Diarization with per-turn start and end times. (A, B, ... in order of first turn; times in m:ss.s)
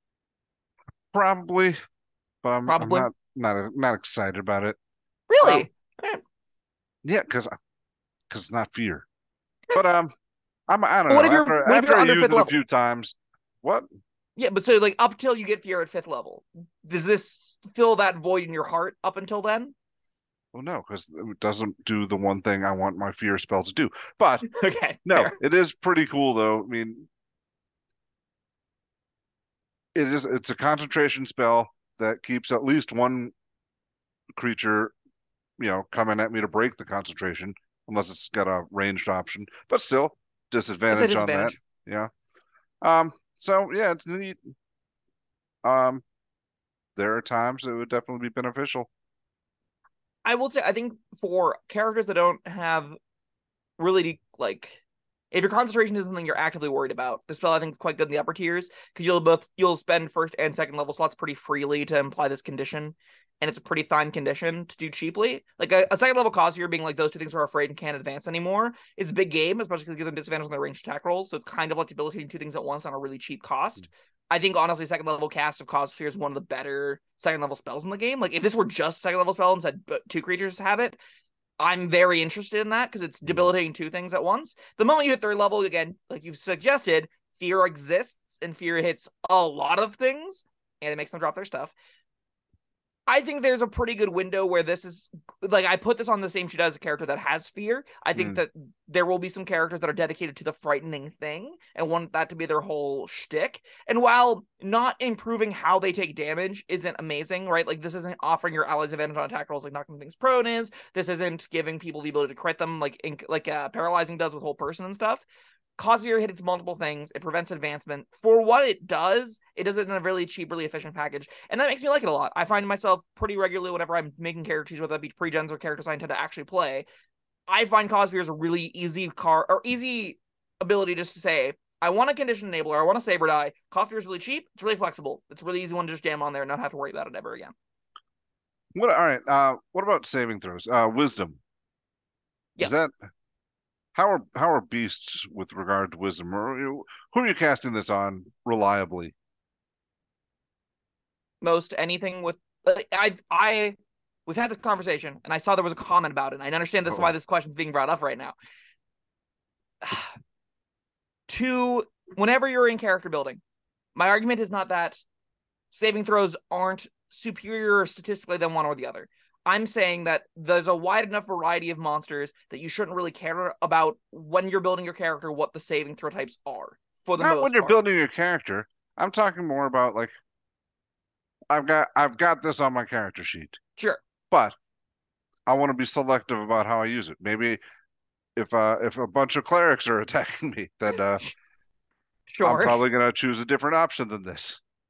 0:01.1-0:01.8 A
0:02.4-0:04.8 A
0:02.7-0:03.1 B
0:05.3-0:06.2 B
0:05.4-0:05.7 A
0:07.0-0:07.5 A
0:08.3-0:09.1 A
0:09.7-0:10.1 A
0:10.7-0:13.9 A
0:11.1-0:12.6 B
0:14.4-0:19.7 B
0:20.5-0:24.5 A
0:24.5-0:25.4 B
0:25.0-0:27.1 A
0:30.0-0:33.3 A
0:34.4-0:34.9 A
0:35.6-0:42.1 A
0:40.9-0:41.6 B
0:42.8-0:44.5 A
0:45.6-0:46.0 A
0:47.0-0:48.9 A
0:50.2-0:53.0 B
0:53.8-0:54.8 B
0:55.3-1:21.0 B
1:21.6-1:31.7 B
1:33.1-1:55.2 B
1:38.2-1:38.4 A
1:55.8-2:06.9 B
2:07.5-2:17.5 B
2:18.8-2:21.4 A
2:22.6-2:22.9 A
2:24.0-2:29.2 A
2:31.4-2:33.8 B
2:34.3-2:38.4 B
2:39.8-2:40.2 B
2:41.3-2:43.4 B
2:44.0-2:45.0 B
2:45.7-2:57.8 B
2:57.2-3:00.1 A
3:01.5-3:03.6 A
3:03.8-3:04.0 B
3:04.3-3:04.6 A
3:05.5-3:07.6 A
3:08.4-3:11.2 A
3:12.3-3:12.9 B
3:12.4-3:14.6 A